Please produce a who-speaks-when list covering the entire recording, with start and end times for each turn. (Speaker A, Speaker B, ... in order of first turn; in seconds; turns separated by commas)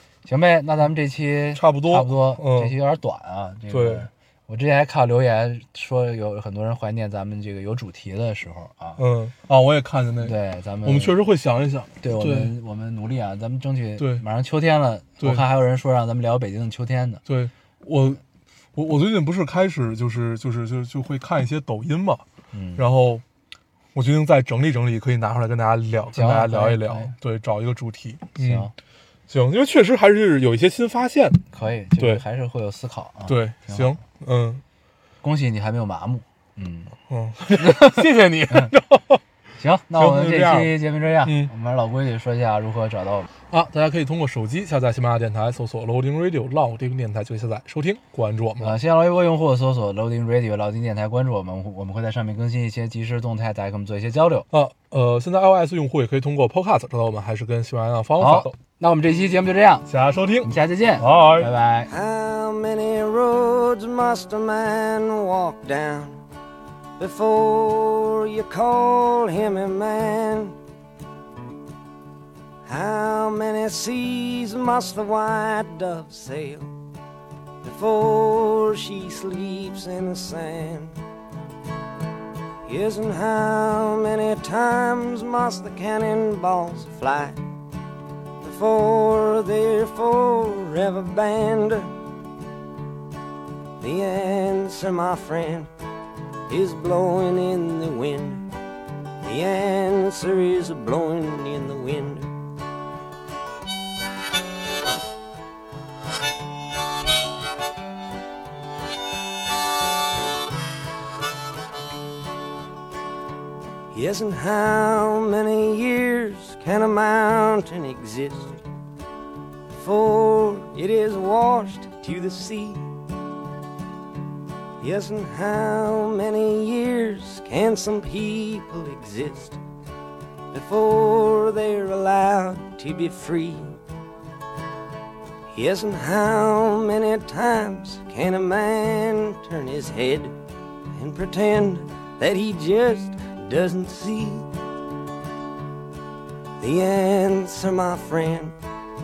Speaker A: 0.2-9.0, Speaker B: 1.5-2.7, Speaker B: 3.7-4.1, Speaker B: 9.0-12.5, Speaker A: 10.2-11.1, Speaker A: 12.0-17.2, Speaker B: 14.0-14.2, Speaker B: 17.2-18.2, Speaker B: 18.7-22.2, Speaker A: 22.5-22.9, Speaker B: 22.8-23.2, Speaker B: 23.9-28.7, Speaker A: 26.1-27.1, Speaker A: 28.4-28.7, Speaker B: 29.3-31.4, Speaker A: 31.5-34.0, Speaker B: 32.0-32.2, Speaker B: 33.3-34.6, Speaker A: 35.2-36.9, Speaker B: 37.1-39.2, Speaker A: 37.5-38.7, Speaker A: 39.6-43.3, Speaker B: 39.9-41.5, Speaker B: 43.5-48.7, Speaker A: 48.6-54.5, Speaker B: 54.5-58.5, Speaker A: 58.2-59.9, Speaker B: 59.9-61.5, Speaker A: 60.4-61.9, Speaker C: 61.9-66.2, Speaker C: 67.0-70.5, Speaker C: 72.7-76.7, Speaker C: 77.6-80.9, Speaker C: 82.7-87.4, Speaker C: 88.4-92.0, Speaker C: 93.8-95.7, Speaker C: 96.5-98.5, Speaker C: 99.2-102.3, Speaker C: 113.9-118.6, Speaker C: 119.7-122.9, Speaker C: 124.8-129.6, Speaker C: 130.5-133.7, Speaker C: 135.5-140.3, Speaker C: 140.9-144.5, Speaker C: 146.6-148.6